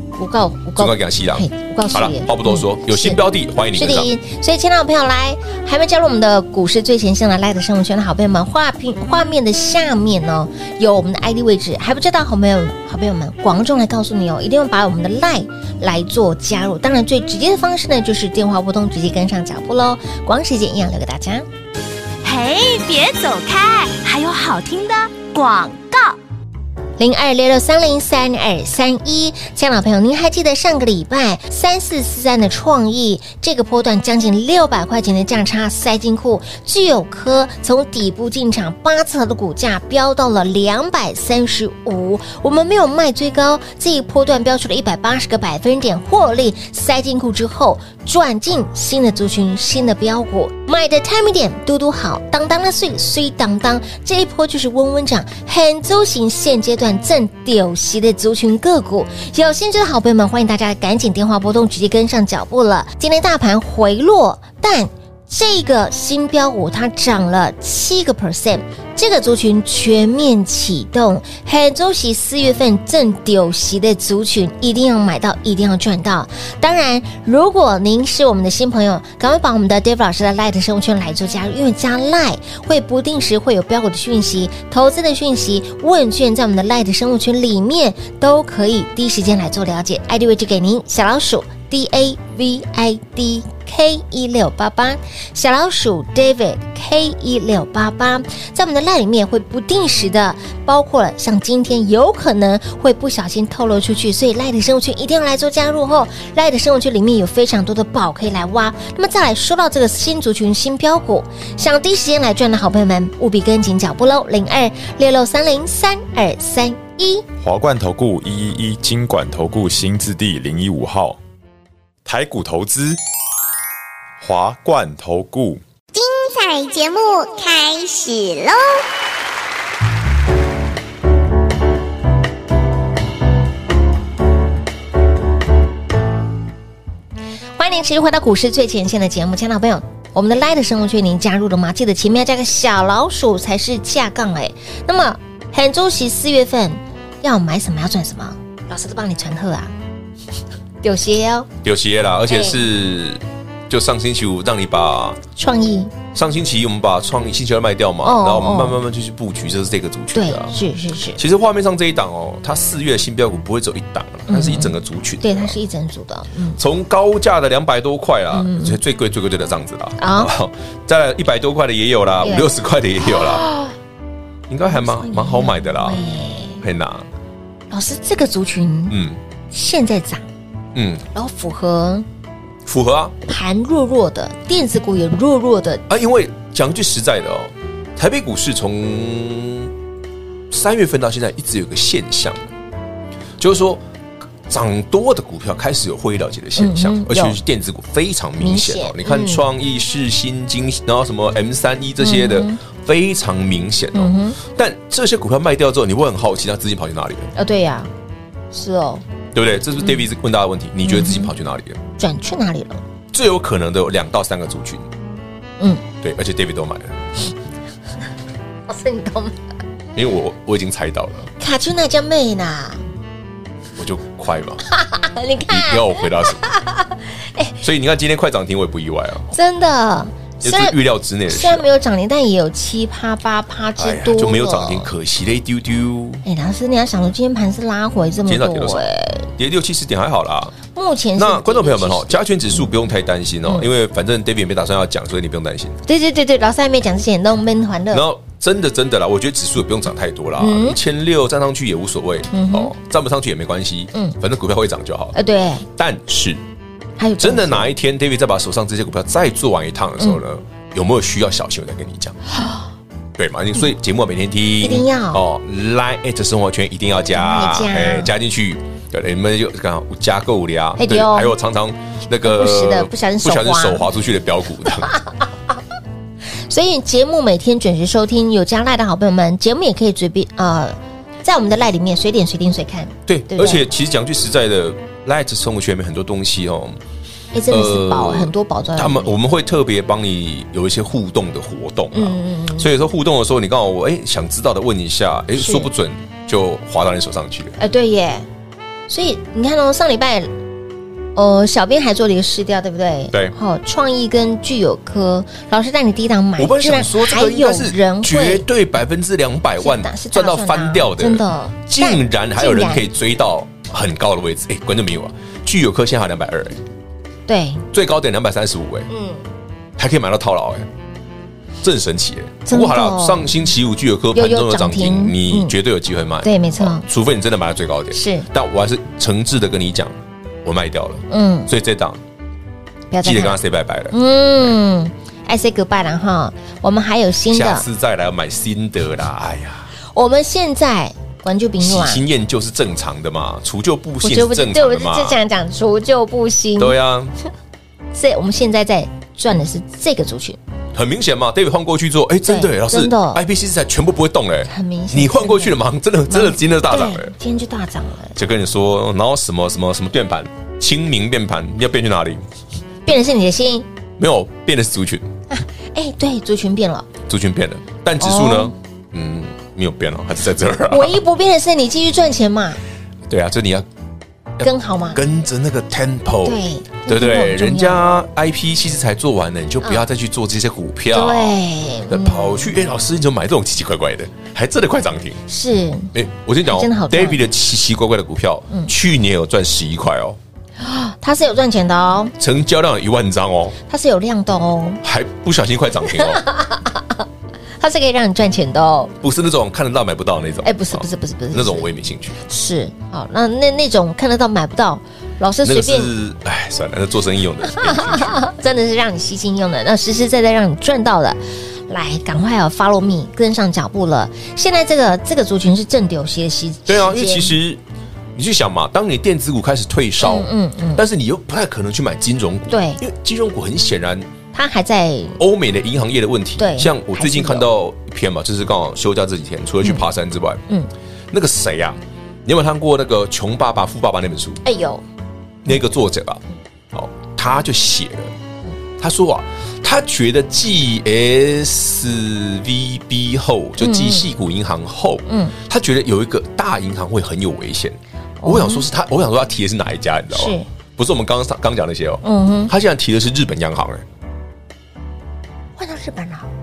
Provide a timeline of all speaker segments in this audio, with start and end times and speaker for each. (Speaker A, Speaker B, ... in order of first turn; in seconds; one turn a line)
Speaker A: 0.2-3.2
Speaker B: 0.8-4.1
Speaker A: 3.7-21.4
Speaker C: 22.2-26.2
Speaker A: 27.0-117.2
Speaker D: 117.4-121.2
Speaker D: 122.0-123.0
Speaker D: 124.2-125.6
Speaker E: 125.9-128.8
Speaker A: 137.6-149.7
Speaker A: 150.8-151.5
Speaker B: 151.6-155.2
Speaker A: 152.3-152.6
Speaker A: 155.3-155.9
Speaker B: 156.1-160.5
Speaker A: 158.0-158.8
Speaker A: 160.1-161.2
Speaker B: 161.2-165.6
Speaker A: 164.3-166.6
Speaker B: 166.6-173.4
Speaker A: 168.3-168.8
Speaker A: 170.0-170.3
Speaker A: 172.2-173.7
Speaker B: 174.5-176.0
Speaker A: 174.7-176.6
Speaker B: 176.6-177.1
Speaker A: 177.7-179.0
Speaker B: 178.9-179.2
Speaker A: 179.5-180.2
Speaker B: 180.7-181.1
Speaker A: 181.1-182.1
Speaker B: 182.6-183.2
Speaker A: 183.3-185.8
Speaker B: 185.9-189.7
Speaker B: 190.5-192.4
Speaker B: 193.4-193.8
Speaker B: 194.5-207.3
Speaker A: 196.6-197.4
Speaker A: 198.4-199.4
Speaker A: 202.0-202.6
Speaker A: 203.9-204.4
Speaker A: 207.3-207.9
Speaker A: 208.5-209.0
Speaker B: 209.3-211.8
Speaker A: 210.8-211.3
Speaker A: 212.0-212.8
Speaker B: 213.1-214.8
Speaker B: 216.0-217.0
Speaker A: 218.7-219.4
Speaker B: 219.9-221.3
Speaker A: 221.4-222.8
Speaker B: 223.8-224.6
Speaker A: 224.7-227.6
Speaker B: 225.5-226.4
Speaker B: 227.6-229.3
Speaker A: 229.3-230.8
Speaker B: 230.4-231.7
Speaker A: 231.3-234.9
Speaker B: 233.8-236.2
Speaker A: 236.2-239.3
Speaker B: 238.2-238.8
Speaker B: 239.3-240.6
Speaker A: 240.7-242.2
Speaker B: 241.2-245.8
Speaker A: 245.8-248.1
Speaker B: 247.9-255.1
Speaker A: 250.4-250.8
Speaker A: 252.3-252.7
Speaker A: 255.1-255.7
Speaker B: 255.7-256.4
Speaker A: 257.0-257.7
Speaker B: 257.2-262.2
Speaker B: 263.2-274.9
Speaker A: 264.6-265.2
Speaker A: 267.1-268.1
Speaker A: 270.8-271.3
Speaker A: 272.2-273.9
Speaker A: 274.8-275.1
Speaker A: 276.5-283.7
Speaker B: 283.1-286.8
Speaker A: 287.3-289.1
Speaker B: 287.5-297.6
Speaker A: 291.9-292.7
Speaker A: 295.4-295.7
Speaker A: 297.6-298.2
Speaker A: 298.9-300.3
Speaker A: 301.1-308.4
Speaker B: 306.4-316.6
Speaker A: 309.6-312.8
Speaker A: 317.3-317.6
Speaker B: 317.7-318.9
Speaker A: 318.9-319.2
Speaker B: 319.8-320.7
Speaker B: 321.6-332.0
Speaker A: 322.5-323.3
Speaker A: 324.1-325.5
Speaker A: 326.2-326.9
Speaker A: 327.9-328.3
Speaker A: 331.1-331.5
Speaker A: 332.9-333.4
Speaker B: 333.0-333.9
Speaker A: 333.9-337.6
Speaker B: 337.3-339.7
Speaker A: 339.9-342.0
Speaker B: 341.6-345.2
Speaker A: 344.0-346.8
Speaker B: 346.6-347.1
Speaker A: 347.9-350.4
Speaker B: 350.7-357.1
Speaker A: 352.2-353.2
Speaker A: 354.5-358.1
Speaker B: 358.1-362.2
Speaker A: 362.9-363.7
Speaker B: 364.0-365.1
Speaker A: 365.3-366.9
Speaker B: 367.1-371.0
Speaker A: 368.0-368.5
Speaker A: 370.7-372.6
Speaker B: 373.1-373.7
Speaker B: 374.4-381.4
Speaker A: 374.4-375.0
Speaker A: 376.2-377.9
Speaker A: 380.9-382.5
Speaker B: 381.9-385.2
Speaker A: 385.3-385.9
Speaker B: 385.9-390.2
Speaker A: 386.4-387.2
Speaker A: 390.6-392.1
Speaker B: 392.2-393.6
Speaker A: 393.7-394.8
Speaker B: 394.8-396.2
Speaker A: 395.9-397.0
Speaker A: 397.6-398.9
Speaker B: 399.0-402.2
Speaker A: 400.4-401.7
Speaker A: 402.2-405.9
Speaker B: 405.4-408.3
Speaker A: 407.5-417.4
Speaker B: 416.7-417.6
Speaker B: 418.1-424.1
Speaker A: 420.0-420.8
Speaker A: 422.5-422.8
Speaker A: 424.3-425.2
Speaker B: 425.2-430.4
Speaker A: 426.4-427.5
Speaker B: 431.1-434.4
Speaker A: 434.4-434.8
Speaker B: 435.4-438.1
Speaker B: 438.8-453.8
Speaker A: 443.6-444.1
Speaker A: 445.1-445.3
Speaker A: 448.2-448.7
Speaker A: 450.1-450.5
Speaker A: 452.0-452.5
Speaker A: 455.6-456.3